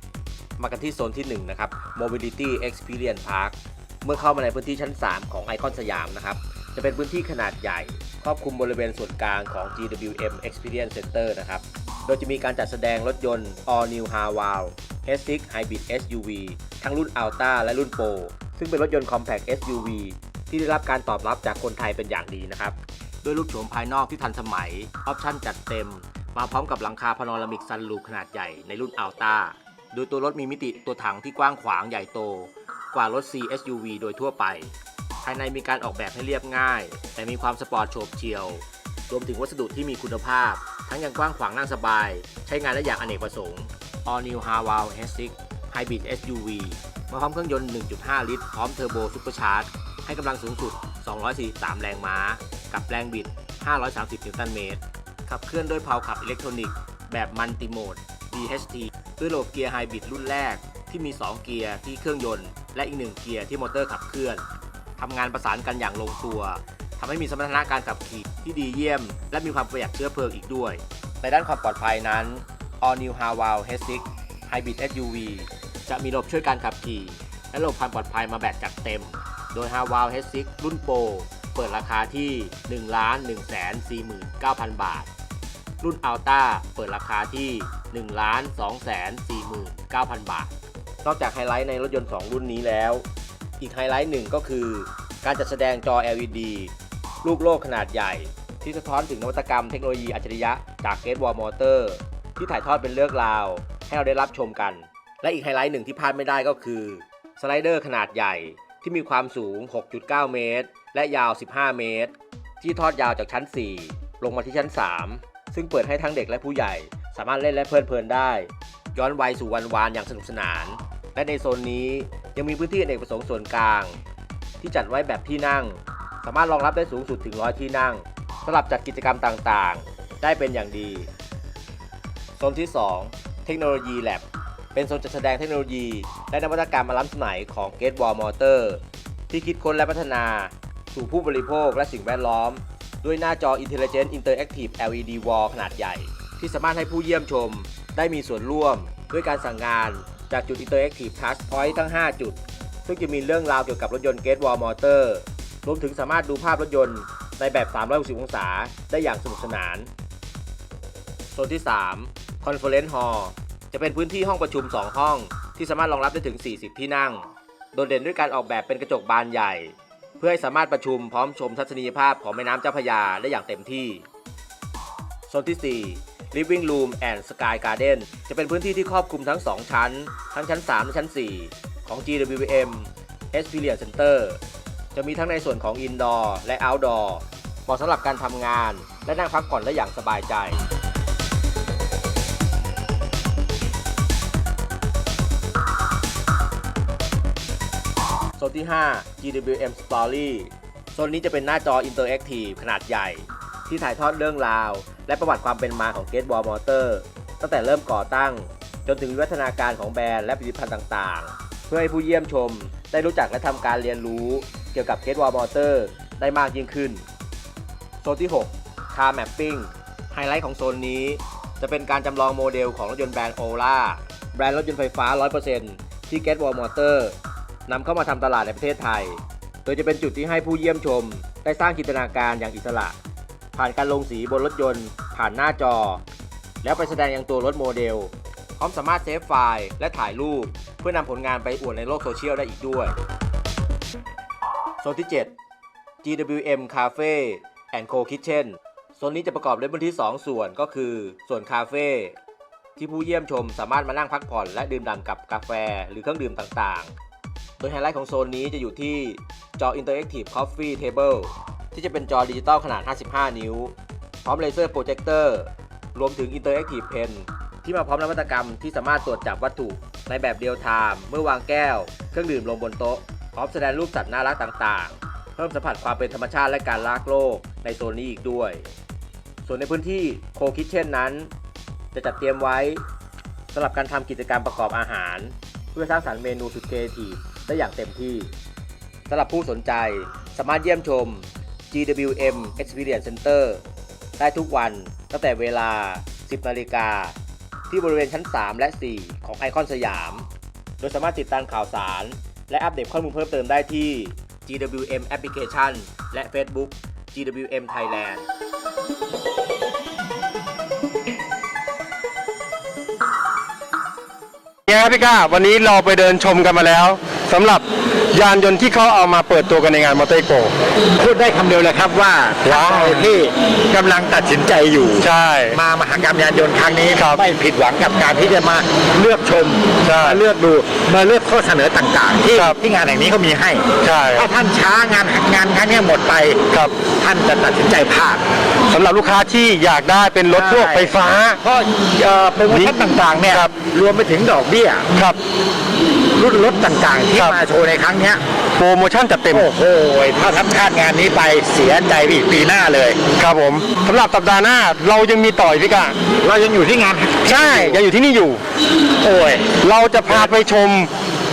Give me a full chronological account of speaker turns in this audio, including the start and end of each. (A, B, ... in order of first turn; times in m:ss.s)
0:00.6-1:04.4 A
1:05.0-1:25.1 A
1:25.8-1:33.0 A
1:33.6-1:36.7 A
1:37.2-2:04.0 A
2:04.6-2:11.1 A
2:12.4-2:14.2 A
2:14.8-2:39.9 A
2:41.3-2:54.0 A
2:55.3-3:04.4 A
3:04.9-3:10.6 A
3:18.4-3:37.0 A
3:38.0-3:47.2 A
3:47.7-3:53.0 A
3:53.6-3:56.0 A
3:56.6-4:03.0 A
4:04.8-4:05.3 A
4:06.0-4:12.2 A
4:12.8-4:16.9 A
4:17.6-4:38.7 A
4:39.4-4:41.3 A
4:41.9-4:42.8 A
4:43.5-4:48.3 A
4:49.1-4:53.6 A
4:54.2-4:57.2 A
4:57.7-5:00.3 A
5:00.8-5:08.3 A
5:14.7-5:20.5 B
5:21.0-5:36.4 C
5:22.4-5:23.1 B
5:25.0-5:25.6 B
5:26.9-5:27.2 B
5:29.8-5:30.2 B
5:32.3-5:32.6 B
5:33.8-5:34.3 B
5:36.5-5:36.8 B
5:37.0-5:38.2 C
5:38.7-5:41.4 B
5:40.3-5:44.9 C
5:42.5-5:42.8 B
5:44.9-5:45.2 B
5:46.2-5:48.2 C
5:48.6-5:49.5 B
5:49.3-5:53.0 C
5:53.2-5:56.0 B
5:56.2-5:57.8 C
5:57.2-5:58.4 B
5:59.0-5:59.5 C
5:59.6-6:00.9 B
6:00.1-6:00.3 C